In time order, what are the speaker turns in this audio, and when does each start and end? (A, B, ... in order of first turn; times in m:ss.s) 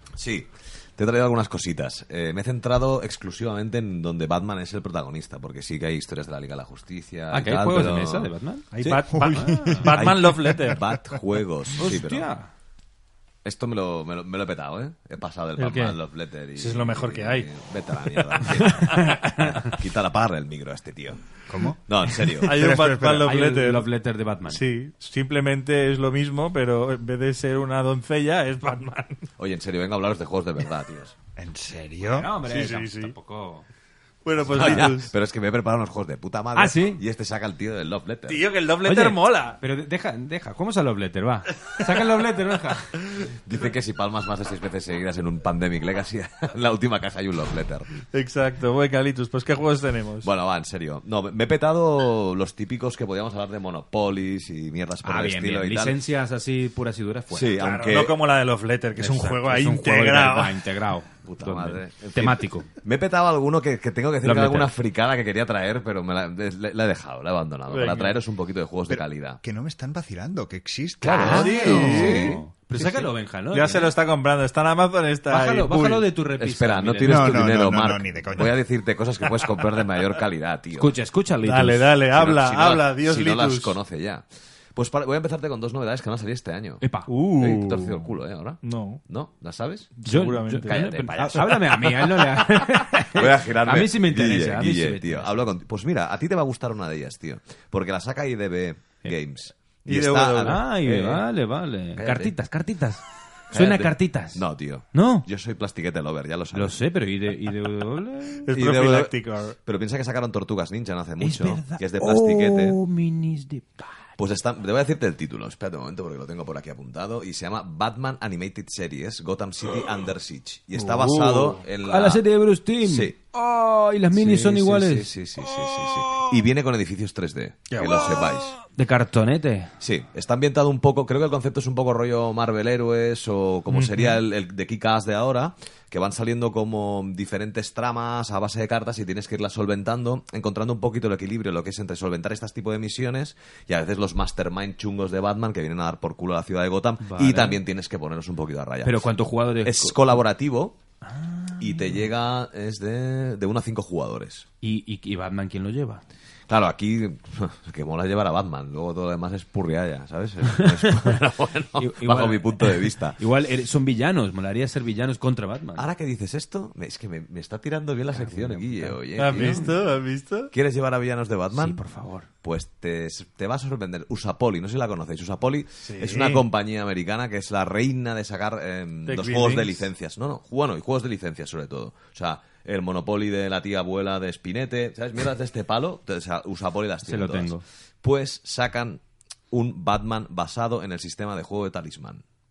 0:00.2-0:08.3 A
0:07.3-0:09.9 B
0:08.7-0:11.2 C
0:09.1-0:09.9 D
0:09.8-0:12.3 A
0:11.8-0:12.5 B
0:13.4-0:21.2 A
0:15.6-0:16.0 C
0:16.6-0:17.5 C
0:18.1-0:19.2 C
0:18.5-0:19.7 B
0:21.5-0:21.9 D
0:21.9-0:22.6 A
0:22.4-0:23.8 C
0:22.4-0:23.4 D
0:23.2-0:24.6 B
0:24.5-0:29.2 C
0:29.4-0:31.2 A
0:31.4-0:32.3 D
0:32.1-0:33.7 B
0:32.4-0:33.1 C
0:34.2-0:35.1 C
0:34.5-0:38.4 A
0:36.6-0:37.0 B
0:38.3-0:39.6 C
0:38.8-0:43.0 B
0:43.2-0:47.9 A
0:48.1-0:50.3 C
0:50.2-0:56.0 A
0:55.0-0:57.5 B
0:57.3-0:58.2 A
0:57.6-1:00.6 C
0:59.0-1:02.7 B
1:01.2-1:09.4 A
1:04.2-1:04.7 B
1:07.7-1:08.2 C
1:08.9-1:12.2 D
1:11.0-1:12.4 A
1:11.1-1:13.9 B
1:11.3-1:16.1 C
1:15.3-1:17.5 B
1:16.4-1:20.9 A
1:17.1-1:18.6 D
1:20.7-1:22.0 B
1:21.4-1:23.8 C
1:22.0-1:29.9 A
1:26.8-1:27.1 B
1:27.0-1:28.1 C
1:28.6-1:29.0 C
1:30.0-1:31.5 C
1:30.0-1:35.4 B
1:30.5-1:31.8 A
1:33.1-1:41.3 A
1:39.9-1:40.6 C
1:40.4-1:45.3 B
1:42.0-1:42.3 A
1:43.5-1:46.8 A
1:46.5-1:48.5 B
1:48.4-1:49.6 C
1:48.5-1:52.8 A
1:51.2-1:54.1 B
1:54.2-2:02.2 A
2:00.8-2:05.1 B
2:02.8-2:03.2 A
2:04.1-2:08.6 A
2:05.5-2:06.4 C
2:07.7-2:08.6 C
2:08.7-2:09.7 B
2:09.8-2:29.1 A
2:13.7-2:14.2 C
2:27.0-2:27.6 B
2:28.8-2:30.1 B
2:29.6-2:30.8 A
2:31.1-2:32.0 B
2:31.6-2:34.5 A
2:34.6-2:36.0 B
2:36.5-2:43.2 A
2:40.5-2:41.0 B
2:41.8-2:45.9 B
2:45.8-2:49.8 A
2:48.1-2:49.7 B
2:49.2-2:50.5 C
2:50.5-2:51.8 A
2:51.5-2:52.3 B
2:52.4-3:12.2 A
2:55.8-2:56.4 C
2:59.1-2:59.9 C
3:07.0-3:07.6 B